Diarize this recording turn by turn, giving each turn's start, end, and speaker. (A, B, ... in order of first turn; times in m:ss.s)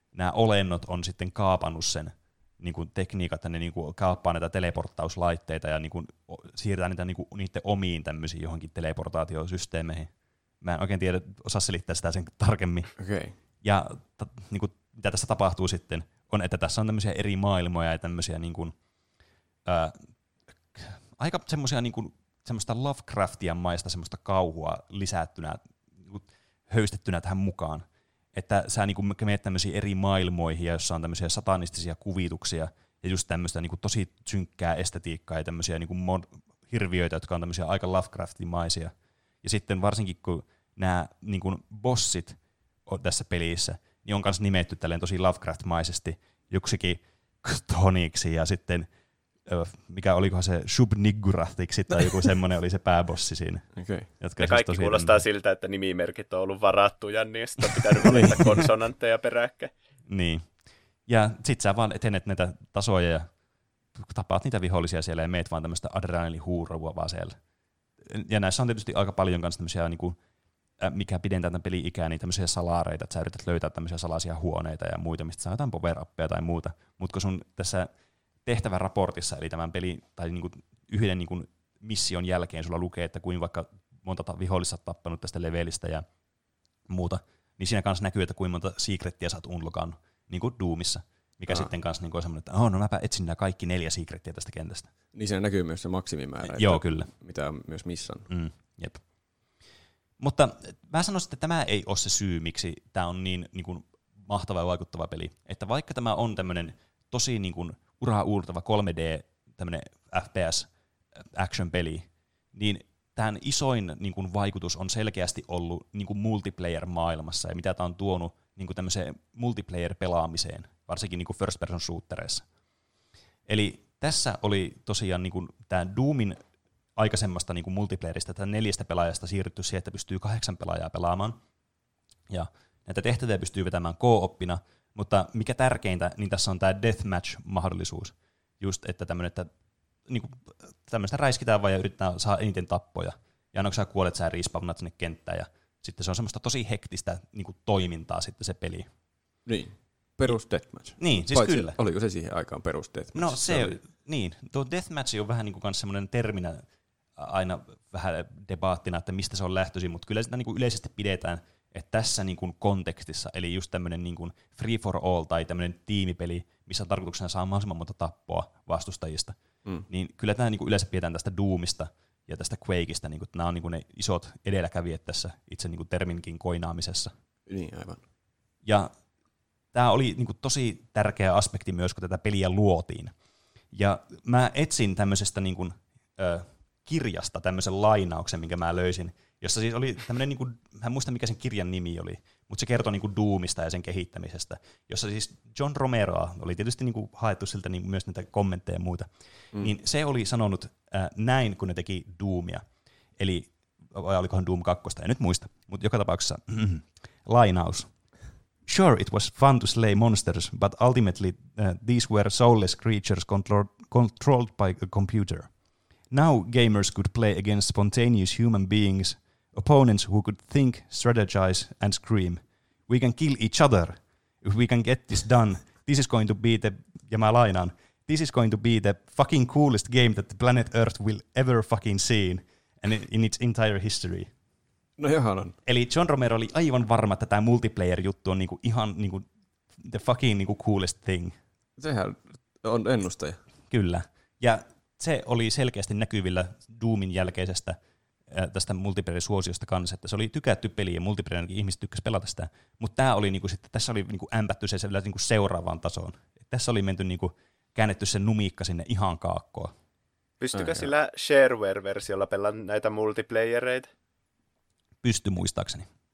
0:00.1-0:12.9 A
0:13.0-0:13.3 B
0:13.6-0:18.7 A
0:19.6-0:20.1 A
0:20.7-0:48.9 A
0:49.4-0:55.2 A
0:53.7-0:54.1 B
0:54.4-0:59.7 C
0:58.0-0:58.5 B
1:00.1-1:03.3 A
1:04.0-1:07.4 A
1:08.0-1:10.2 A
1:10.8-1:17.9 A
1:18.4-1:26.0 A
1:26.9-1:34.9 A
1:35.1-1:38.3 B
1:36.5-1:37.1 A
1:38.3-1:39.0 A
1:40.2-2:02.4 A
2:03.5-2:06.4 A
2:07.0-2:11.4 A
2:12.3-2:19.5 A
2:20.1-2:28.9 A
2:29.4-2:33.8 B
2:31.0-2:31.8 A
2:33.1-2:57.1 A
2:57.5-2:58.0 B
2:58.6-2:58.9 A
2:59.7-3:03.1 A
3:03.7-3:22.6 A
3:23.2-3:27.9 A
3:28.6-3:35.5 A
3:36.1-3:54.3 A
3:55.0-3:55.5 B
3:55.6-3:59.2 A
3:59.8-4:01.4 A
4:01.8-4:03.4 B
4:03.7-4:07.8 A
4:08.3-4:19.7 A
4:20.4-4:23.9 C
4:20.5-4:20.9 B
4:25.0-4:25.9 A